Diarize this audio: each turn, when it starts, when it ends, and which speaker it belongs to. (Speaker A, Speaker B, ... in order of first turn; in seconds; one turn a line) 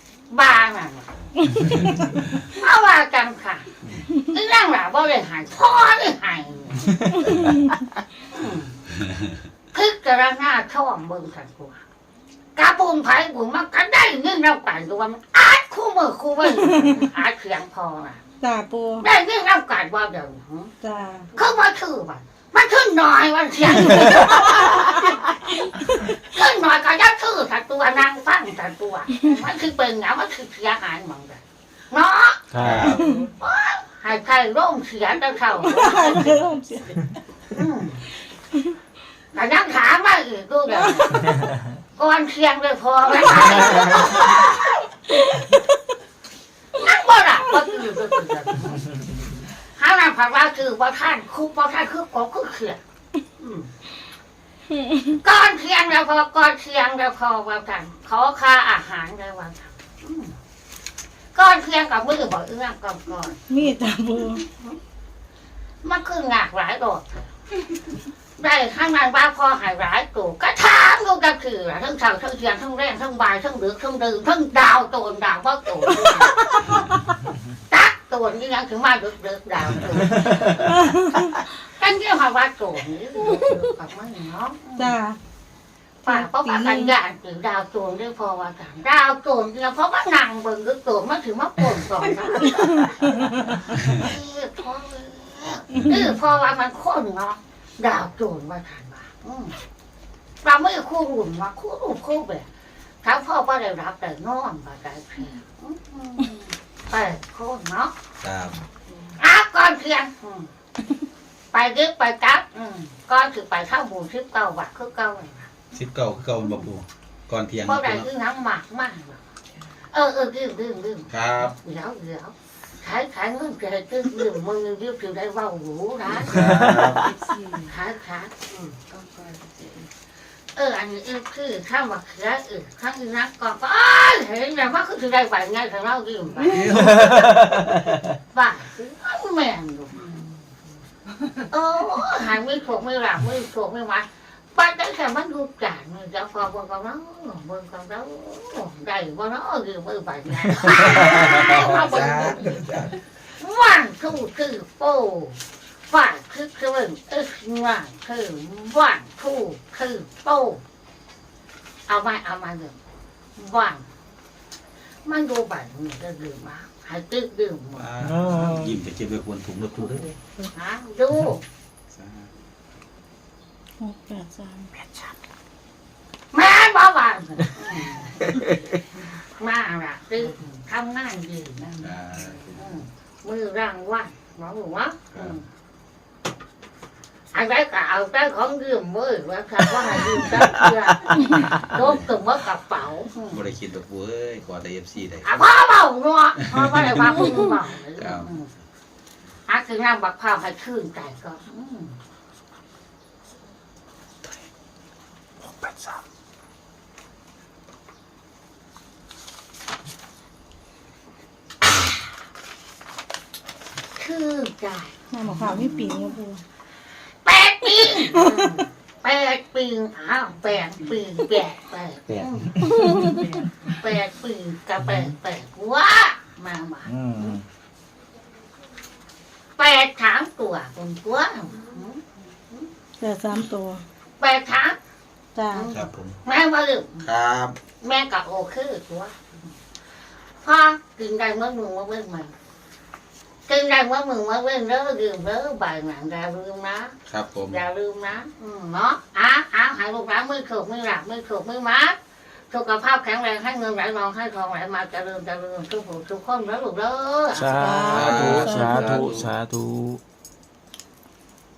Speaker A: 0.3-1.1
Speaker A: 2.3-7.0
Speaker A: 8.3-8.8
Speaker A: 9.7-11.8
Speaker A: 12.5-18.2
Speaker B: 18.4-19.1
Speaker A: 19.0-20.7
Speaker B: 20.8-21.3
Speaker A: 21.3-25.0
Speaker A: 25.9-32.4
Speaker C: 32.5-32.9
Speaker D: 32.6-33.1
Speaker A: 33.0-36.2
Speaker B: 33.0-33.2
Speaker B: 35.6-37.0
Speaker A: 37.5-38.0
Speaker A: 39.3-44.7
Speaker A: 46.7-48.9
Speaker A: 49.7-52.8
Speaker A: 53.4-53.7
Speaker A: 55.1-60.3
Speaker A: 61.3-63.5
Speaker B: 63.5-64.4
Speaker A: 65.8-67.3
Speaker A: 68.4-76.8
Speaker B: 76.5-76.8
Speaker A: 77.7-80.7
Speaker B: 80.7-81.3
Speaker A: 81.6-84.9
Speaker B: 84.8-85.2
Speaker A: 86.0-93.2
Speaker B: 86.1-86.9
Speaker B: 92.6-93.1
Speaker A: 93.7-99.6
Speaker A: 100.4-102.5
Speaker A: 103.0-107.9
Speaker D: 108.2-108.6
Speaker A: 109.0-110.5
Speaker A: 111.5-115.5
Speaker D: 115.7-118.1
Speaker A: 116.4-116.7
Speaker A: 117.6-119.2
Speaker A: 119.9-126.5
Speaker D: 121.1-121.6
Speaker D: 126.2-127.1
Speaker C: 126.3-127.1
Speaker A: 127.6-128.8
Speaker A: 130.5-137.0
Speaker D: 136.6-136.9
Speaker C: 136.7-137.6
Speaker A: 138.3-140.1
Speaker A: 141.5-152.6
Speaker D: 150.8-153.0
Speaker A: 153.4-160.6
Speaker A: 161.9-162.8
Speaker A: 163.3-163.9
Speaker A: 165.0-167.9
Speaker D: 167.7-170.1
Speaker C: 168.0-168.8
Speaker A: 170.4-171.4
Speaker D: 171.9-172.3
Speaker B: 173.8-174.7
Speaker A: 176.3-178.3
Speaker A: 179.2-181.8
Speaker D: 181.7-182.7
Speaker A: 182.5-185.4
Speaker D: 185.1-185.4
Speaker A: 187.3-193.4
Speaker D: 193.3-195.4
Speaker A: 195.2-198.5
Speaker D: 196.4-197.0
Speaker D: 198.0-198.3
Speaker A: 199.5-201.9
Speaker A: 213.9-214.9
Speaker B: 215.1-216.4
Speaker A: 217.2-222.6
Speaker C: 222.1-223.2
Speaker B: 222.6-223.3
Speaker A: 223.6-227.3
Speaker C: 226.8-227.4
Speaker A: 229.6-232.0
Speaker B: 233.0-233.8
Speaker A: 234.2-234.8
Speaker B: 235.3-235.7
Speaker A: 235.5-237.0
Speaker D: 235.7-236.2
Speaker D: 237.0-237.6
Speaker A: 237.8-239.2
Speaker A: 240.4-242.3
Speaker A: 243.5-246.9
Speaker D: 247.1-247.6
Speaker A: 247.5-252.0
Speaker A: 252.5-257.7
Speaker C: 257.3-260.0
Speaker B: 257.5-259.1
Speaker D: 257.8-259.3